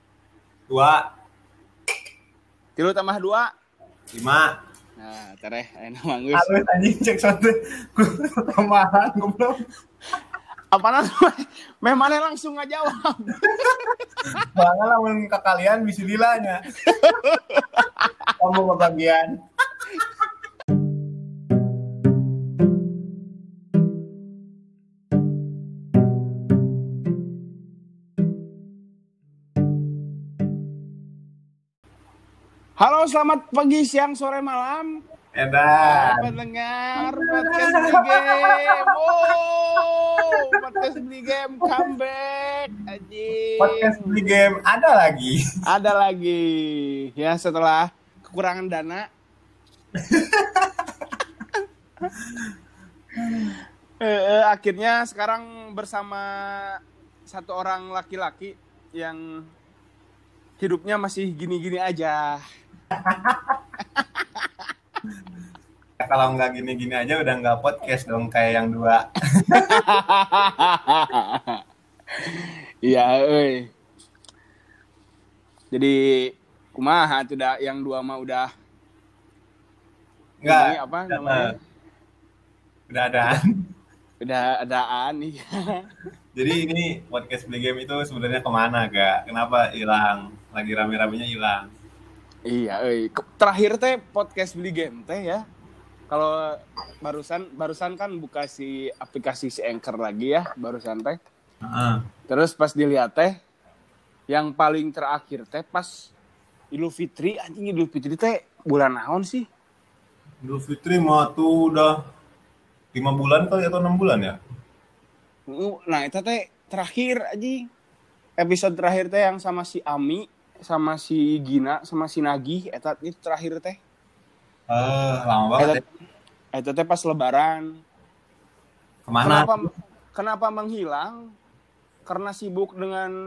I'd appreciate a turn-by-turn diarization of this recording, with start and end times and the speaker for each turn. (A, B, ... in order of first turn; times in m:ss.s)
0:00.7-0:01.0 A
0:02.8-0:03.5 B
0:04.1-0:04.5 A
0:05.0-0:06.5 B
0:06.3-0:09.6 A
0:10.7-0:14.4 B
0:14.4-0:16.6 A
0:16.8-0:18.3 B
0:18.4-0:19.4 A
0:32.8-0:35.0 B
0:35.3-0:36.3 A
0:35.8-0:44.2 B
0:37.0-0:39.3 A
0:40.3-0:40.9 A
0:41.6-0:41.9 A
0:43.6-0:45.4 A
0:45.6-0:49.1 B
0:50.0-0:50.9 A
0:52.2-0:52.4 A
0:53.2-0:53.6 A
0:54.0-0:59.4 B
1:00.6-1:02.4 B
1:03.0-1:03.6 A
1:03.9-1:04.7 B
1:06.0-1:09.9 A
1:09.5-1:11.6 B
1:12.2-1:13.7 B
1:15.7-1:18.5 B
1:20.4-1:21.5 A
1:20.4-1:21.5 B
1:22.9-1:23.5 A
1:24.2-1:25.9 B
1:26.3-1:31.7 A
1:32.5-1:35.4 B
1:36.1-1:36.5 B
1:37.0-1:41.2 B
1:41.6-1:42.0 A
1:42.3-1:43.4 B
1:44.3-1:46.1 B
1:46.7-1:49.4 B
1:50.4-1:52.0 A
1:52.9-1:54.4 A
1:55.5-1:57.6 B
1:58.4-2:03.8 B
2:04.7-2:05.8 A
2:06.5-2:07.7 B
2:09.1-2:09.7 A
2:09.2-2:11.2 B
2:12.1-2:13.1 B